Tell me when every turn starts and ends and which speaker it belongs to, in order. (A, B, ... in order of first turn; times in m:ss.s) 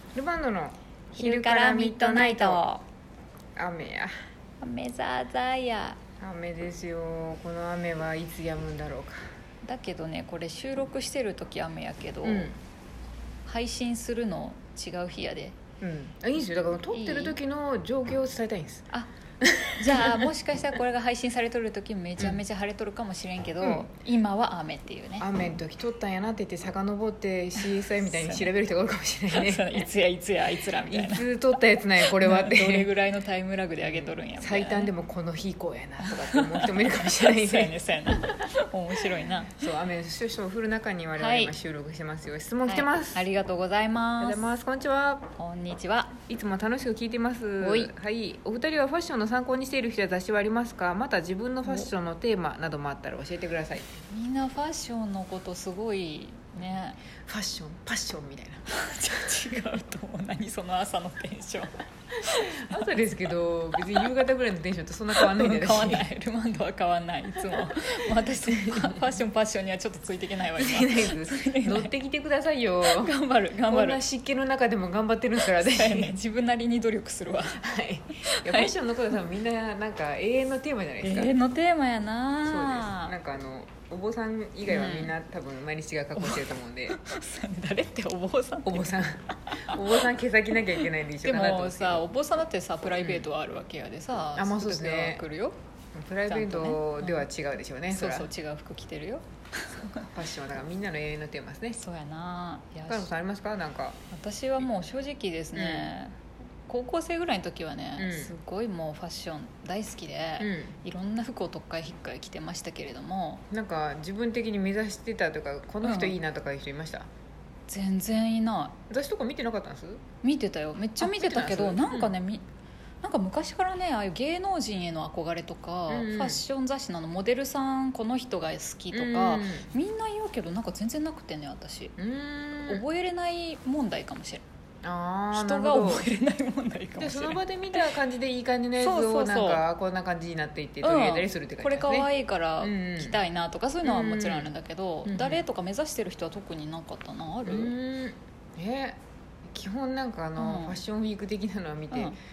0:00.1-0:02.6 A
0:01.2-0:02.8 B
0:03.6-0:04.1 A
0:04.6-0:06.0 B
0:06.2-0:09.2 A
0:09.6-0:12.5 B
0:12.2-0:12.6 A
0:13.4-0:15.6 B
0:15.8-0:18.9 A
0:16.9-0:17.4 B
0:19.4-0:20.3 A
0:19.8-0:25.3 B
0:23.6-0:23.9 A
0:25.2-0:29.8 A
0:27.6-0:28.5 B
0:29.3-0:31.2 B
0:30.8-0:32.9 A
0:32.0-0:34.9 B
0:33.8-0:37.7 A
0:36.0-0:39.6 B
0:39.5-0:43.2 A
0:41.2-0:41.5 B
0:42.6-0:44.4 B
0:44.2-0:45.2 A
0:45.4-0:46.2 B
0:46.3-0:53.9 A
0:47.6-0:47.9 B
0:54.1-0:57.0 B
0:57.2-0:58.6 A
0:58.7-1:01.7 B
1:02.2-1:02.8 B
1:02.4-1:06.1 A
1:05.2-1:11.9 B
1:08.3-1:09.1 A
1:10.6-1:13.1 A
1:12.9-1:14.0 B
1:13.7-1:16.1 A
1:15.4-1:17.6 B
1:17.5-1:21.3 A
1:18.2-1:18.7 B
1:21.0-1:23.1 B
1:22.4-1:27.0 A
1:24.7-1:25.1 B
1:26.2-1:29.8 B
1:28.6-1:32.1 A
1:31.2-1:35.5 B
1:32.9-1:33.3 A
1:34.4-1:35.2 A
1:35.9-1:38.3 A
1:36.3-1:37.2 B
1:37.9-1:40.0 B
1:40.0-1:41.8 A
1:41.8-1:43.1 B
1:42.9-1:44.0 A
1:44.1-1:46.1 B
1:45.6-1:45.9 A
1:46.7-1:53.4 B
1:48.0-1:48.3 A
1:50.4-1:50.7 A
1:53.5-1:57.1 A
1:55.8-1:56.2 B
1:57.7-1:58.8 B
1:58.9-2:00.0 A
2:00.2-2:02.4 B
2:01.0-2:02.1 A
2:03.0-2:11.9 B
2:05.9-2:06.4 A
2:08.9-2:09.7 A
2:12.0-2:12.8 A
2:12.7-2:14.4 B
2:14.8-2:16.1 A
2:15.3-2:17.9 B
2:17.0-2:22.1 A
2:18.8-2:19.6 B
2:20.8-2:27.7 B
2:22.6-2:23.2 A
2:23.8-2:24.5 A
2:25.0-2:25.4 A
2:27.4-2:32.2 A
2:30.4-2:30.8 B